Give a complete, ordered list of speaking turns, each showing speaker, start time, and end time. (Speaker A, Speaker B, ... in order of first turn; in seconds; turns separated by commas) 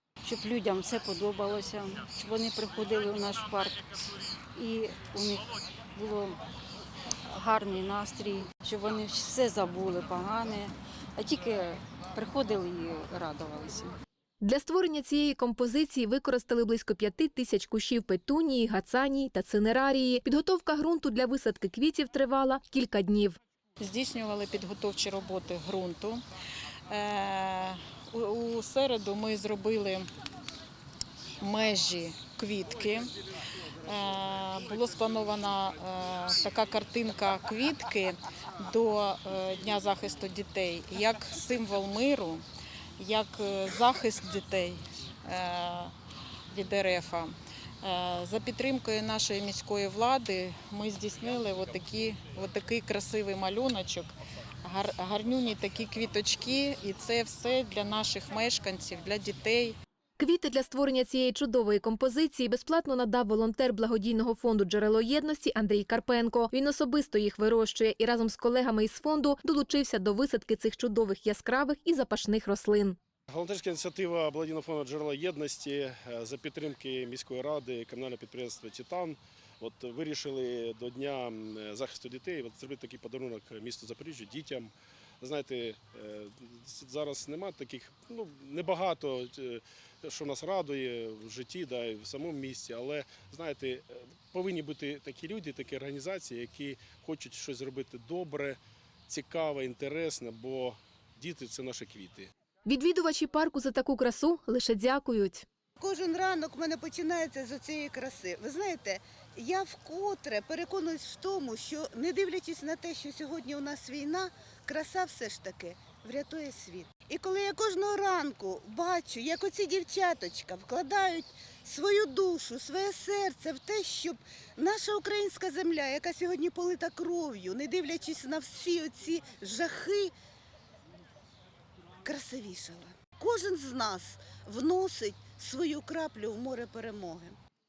Speaker A: 0.2-3.8, Speaker A: 4.5-6.4, Speaker A: 7.3-13.9, Speaker B: 14.4-23.4, Speaker C: 23.8-26.2, Speaker C: 26.9-30.1, Speaker C: 31.4-33.1, Speaker C: 33.8-42.4, Speaker C: 43.0-45.9, Speaker C: 46.5-59.8, Speaker B: 60.2-73.0, Speaker D: 73.3-102.3, Speaker B: 102.7-105.4, Speaker E: 105.8-130.1, Speaker E: 132.0-137.3